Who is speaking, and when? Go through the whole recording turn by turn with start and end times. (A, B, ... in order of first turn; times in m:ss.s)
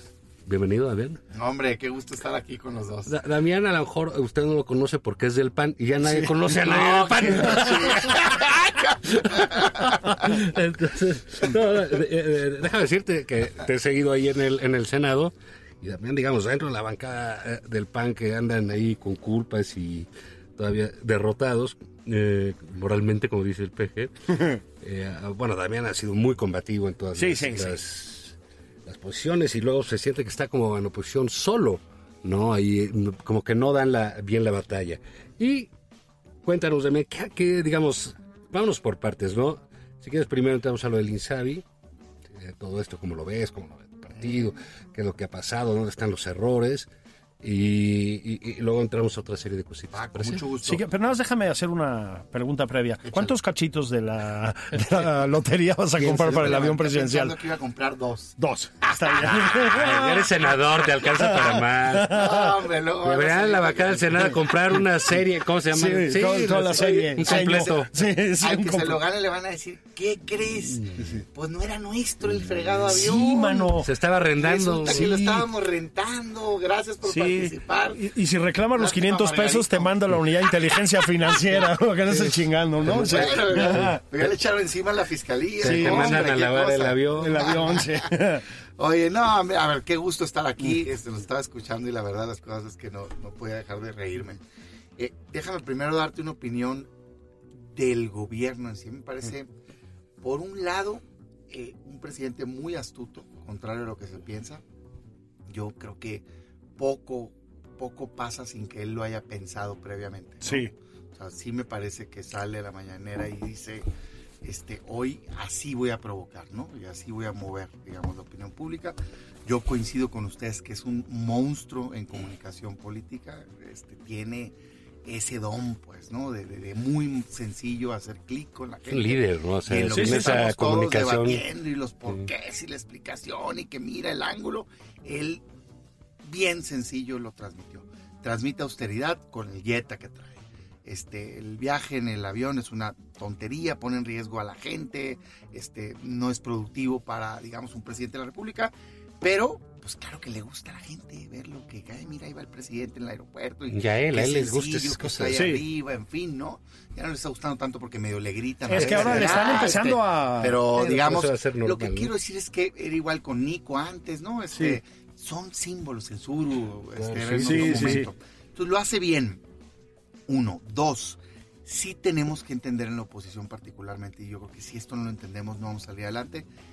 0:00.4-0:01.2 A
0:01.3-0:03.2 B
0:03.1-0:35.7 A
0:06.6-0:10.0 B
0:07.3-0:07.7 C
0:27.2-0:27.8 C
0:36.4-0:41.7 A
0:42.3-0:46.9 A
0:47.4-0:50.4 A
0:49.9-0:50.9 B
0:50.6-0:57.4 C
0:53.0-0:53.4 B
0:56.0-0:56.8 A
0:56.3-0:59.6 B
0:58.4-1:00.4 C
0:59.2-1:02.4 A
1:00.9-1:02.5 C
1:02.1-1:04.5 B
1:03.0-1:07.9 A
1:05.7-1:09.0 C
1:06.8-1:07.5 B
1:08.4-1:13.8 B
1:10.8-1:11.2 A
1:12.4-1:15.4 A
1:12.9-1:13.9 C
1:14.4-1:18.0 B
1:17.1-1:24.0 C
1:18.8-1:20.8 B
1:22.1-1:24.3 A
1:22.9-1:28.1 B
1:25.6-1:27.6 A
1:25.6-1:26.3 C
1:27.2-1:28.5 C
1:28.8-1:34.4 B
1:35.0-1:36.9 B
1:37.6-1:39.5 B
1:40.2-1:44.6 B
1:45.5-1:46.2 B
1:46.8-1:53.9 B
1:50.4-1:50.7 C
1:54.4-2:15.4 B
2:08.9-2:11.4 A
2:09.9-2:10.3 C
2:16.2-2:49.4 B
2:33.7-2:35.4 A
2:35.3-2:35.6 C
2:38.7-2:40.7 C
2:38.7-2:39.8 A
2:40.7-2:42.1 A
2:47.0-2:48.1 A
2:47.4-2:48.1 C
2:50.3-2:56.5 B